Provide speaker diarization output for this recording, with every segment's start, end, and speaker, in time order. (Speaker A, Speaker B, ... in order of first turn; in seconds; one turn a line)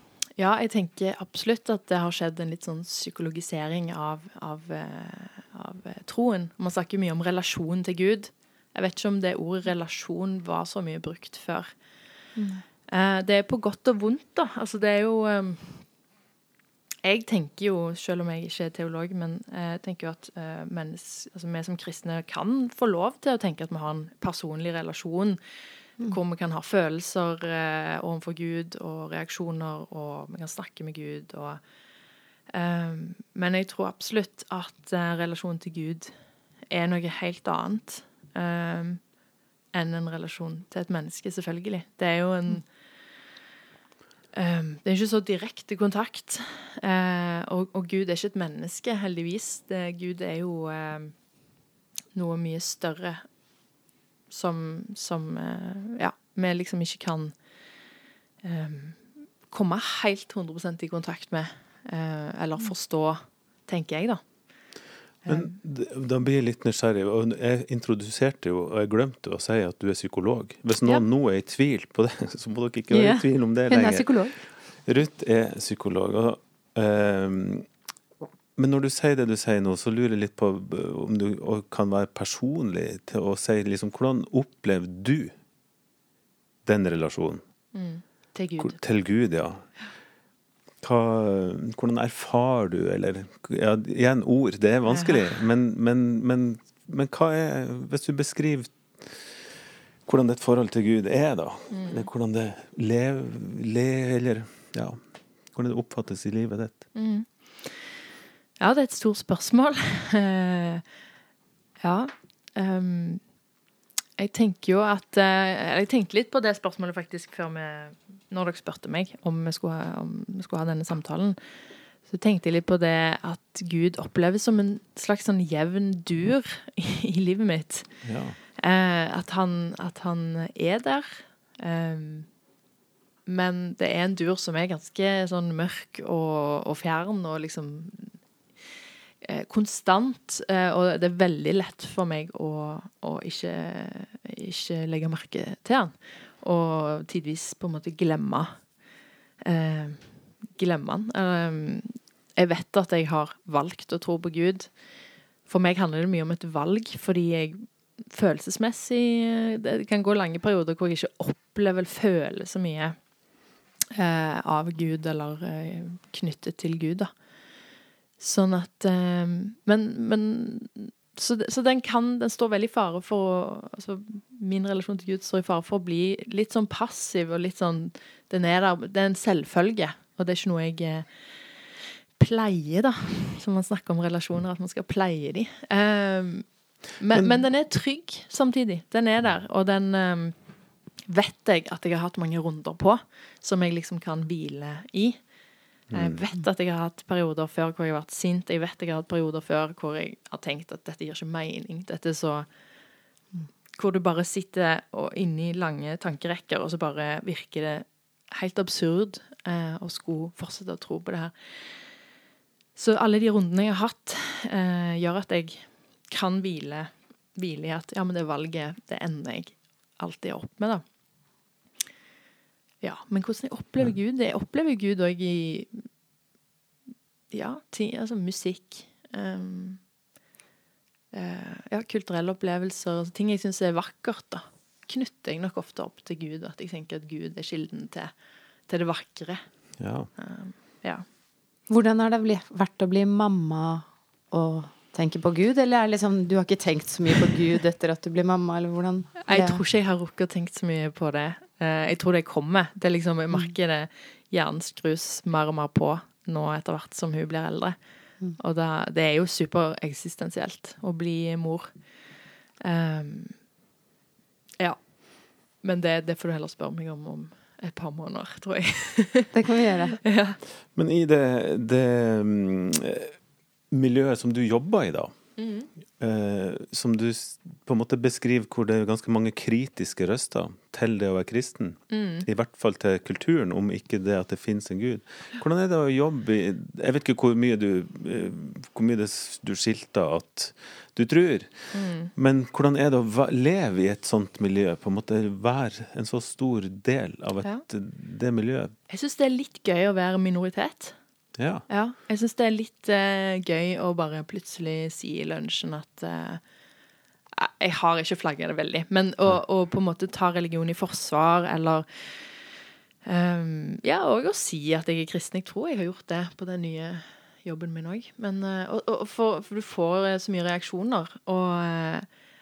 Speaker A: 0.4-11.8
Speaker B: 12.3-12.6
Speaker A: 12.9-15.9
Speaker A: 17.0-25.4
Speaker A: 26.1-31.6
Speaker A: 32.5-36.1
Speaker A: 36.7-39.0
Speaker A: 39.7-42.7
Speaker A: 44.3-51.2
Speaker A: 52.1-53.2
Speaker A: 54.3-57.4
Speaker A: 58.4-64.2
Speaker A: 65.2-65.5
Speaker C: 65.3-74.1
Speaker B: 72.9-74.3
Speaker C: 74.8-77.7
Speaker C: 78.5-85.3
Speaker C: 86.7-87.4
Speaker A: 87.7-88.8
Speaker C: 88.6-89.7
Speaker C: 90.8-99.2
Speaker A: 94.9-95.4
Speaker C: 100.0-105.0
Speaker A: 101.7-102.1
Speaker C: 105.5-106.8
Speaker A: 106.9-107.9
Speaker A: 108.6-110.8
Speaker A: 111.8-113.2
Speaker A: 114.2-121.4
Speaker A: 122.0-127.9
Speaker C: 128.0-128.4
Speaker A: 128.6-132.3
Speaker A: 133.3-138.2
Speaker A: 139.2-148.7
Speaker A: 149.4-154.8
Speaker A: 155.4-162.9
Speaker A: 163.9-167.1
Speaker A: 168.2-181.3
Speaker A: 182.2-190.3
Speaker C: 187.1-187.4
Speaker A: 191.1-195.3
Speaker C: 195.9-196.2
Speaker A: 195.9-202.5
Speaker A: 203.8-211.8
Speaker A: 212.8-220.8
Speaker A: 222.8-225.9
Speaker A: 227.3-229.8
Speaker A: 231.1-238.1
Speaker A: 238.7-241.0
Speaker C: 239.8-240.1
Speaker B: 241.7-249.6
Speaker A: 249.3-257.8
Speaker A: 258.4-261.7
Speaker A: 262.6-263.4
Speaker A: 264.6-269.4
Speaker B: 269.3-270.0
Speaker A: 270.0-270.4
Speaker C: 270.7-273.1
Speaker C: 273.7-275.1
Speaker A: 275.4-275.7
Speaker C: 276.0-291.5
Speaker A: 281.9-282.3
Speaker A: 291.7-292.1
Speaker C: 292.1-298.7
Speaker A: 298.9-301.0
Speaker C: 301.4-301.6
Speaker A: 301.7-306.4
Speaker A: 307.4-312.5
Speaker A: 313.1-322.1